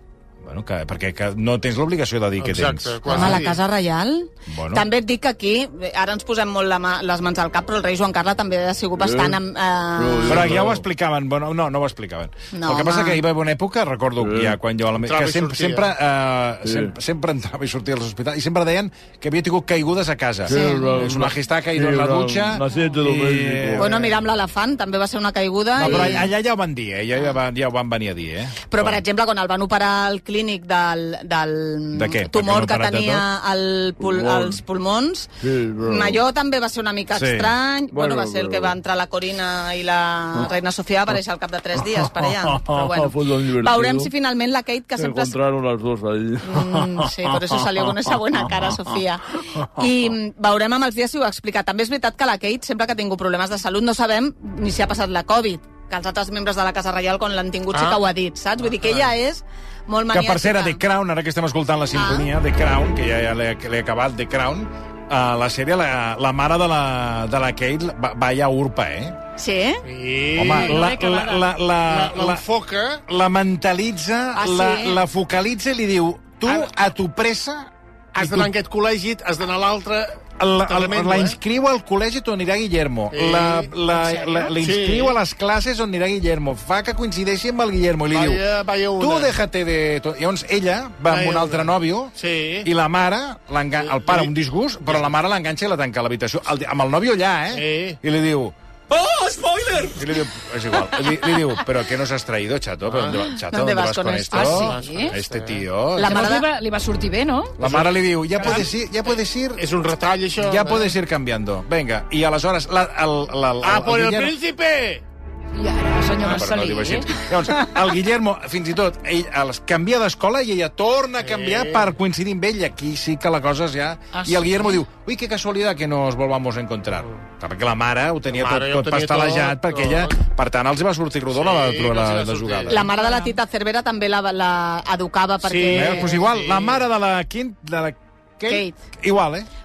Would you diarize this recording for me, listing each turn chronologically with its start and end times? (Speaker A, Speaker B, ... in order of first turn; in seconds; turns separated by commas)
Speaker A: 0.4-3.5, Speaker B: 2.4-3.6, Speaker C: 3.0-10.7, Speaker A: 4.5-4.8, Speaker D: 9.0-9.4, Speaker D: 9.9-10.8, Speaker A: 10.3-23.9, Speaker C: 12.5-13.2, Speaker D: 14.2-14.6, Speaker B: 15.0-15.9, Speaker D: 16.6-16.9, Speaker D: 20.4-23.9, Speaker C: 20.5-20.9, Speaker C: 23.8-26.3, Speaker A: 25.8-29.0, Speaker D: 25.8-26.2, Speaker C: 28.7-45.4, Speaker A: 31.9-33.3, Speaker D: 34.1-34.5, Speaker D: 35.4-36.2, Speaker A: 37.1-37.5, Speaker D: 37.9-38.7, Speaker D: 42.2-44.1, Speaker D: 45.0-47.6, Speaker C: 46.4-60.8, Speaker B: 57.7-58.0, Speaker B: 58.7-59.1, Speaker A: 60.1-69.2, Speaker C: 61.9-62.3, Speaker C: 69.4-69.8, Speaker B: 69.8-70.8, Speaker A: 70.3-72.4, Speaker E: 70.4-71.5, Speaker B: 71.8-73.0, Speaker A: 73.1-78.5, Speaker C: 74.3-75.0, Speaker B: 78.1-81.4, Speaker A: 80.4-106.3, Speaker B: 83.1-83.7, Speaker B: 84.4-85.2, Speaker B: 88.1-89.3, Speaker B: 91.1-92.7, Speaker B: 93.8-95.1, Speaker B: 97.5-98.0, Speaker B: 102.9-103.2, Speaker C: 103.5-104.7, Speaker E: 104.3-105.2, Speaker B: 104.5-105.7, Speaker C: 106.0-106.5, Speaker E: 106.0-107.6, Speaker A: 107.6-109.7, Speaker B: 107.6-108.7, Speaker E: 108.4-108.6, Speaker B: 109.5-110.9, Speaker A: 110.4-114.3, Speaker B: 113.6-115.0, Speaker E: 115.5-117.3, Speaker A: 116.2-132.9, Speaker B: 121.2-121.9, Speaker E: 124.1-124.8, Speaker B: 128.3-130.2, Speaker B: 131.3-132.8, Speaker C: 132.7-136.1, Speaker E: 132.9-133.4, Speaker D: 135.4-135.9, Speaker B: 135.6-136.8, Speaker A: 135.7-139.5, Speaker C: 138.5-138.8